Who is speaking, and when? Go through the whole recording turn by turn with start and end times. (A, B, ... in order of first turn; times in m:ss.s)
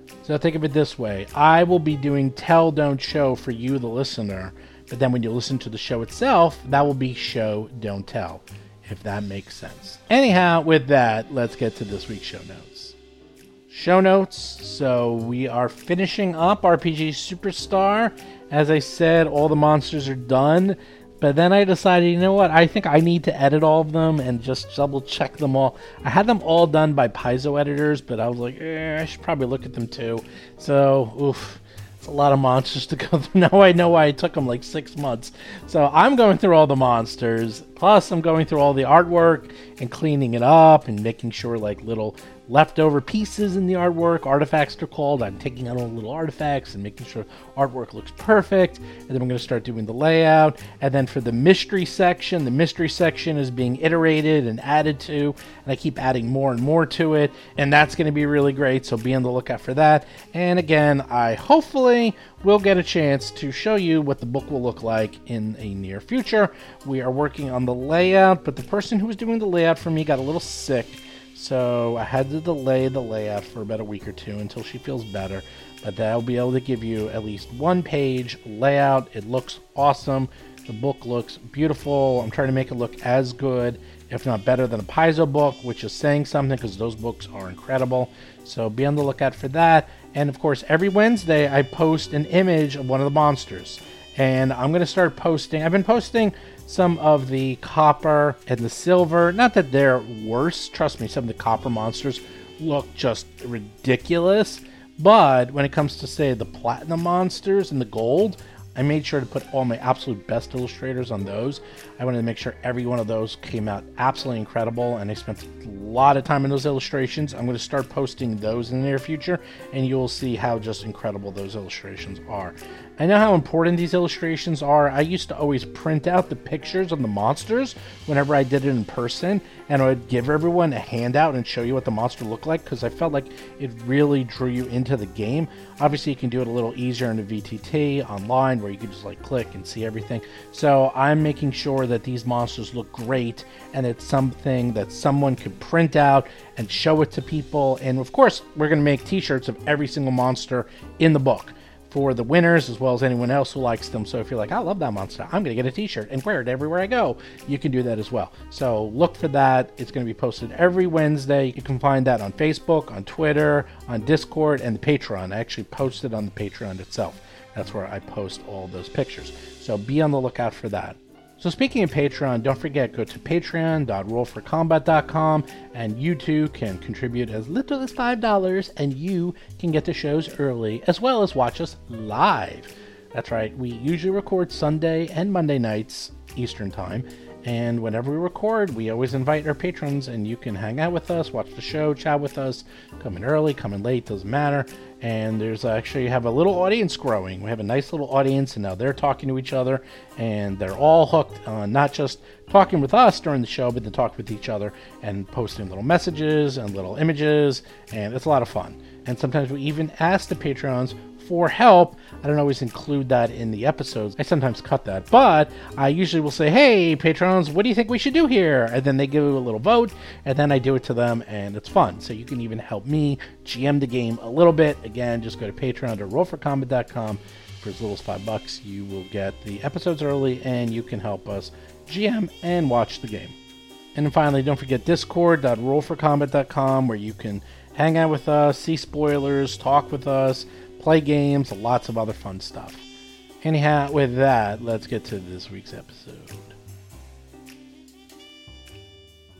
0:00.2-0:13.0 A
0:13.7-3:53.3 A
3:53.9-4:02.8 A
4:03.4-4:06.6 A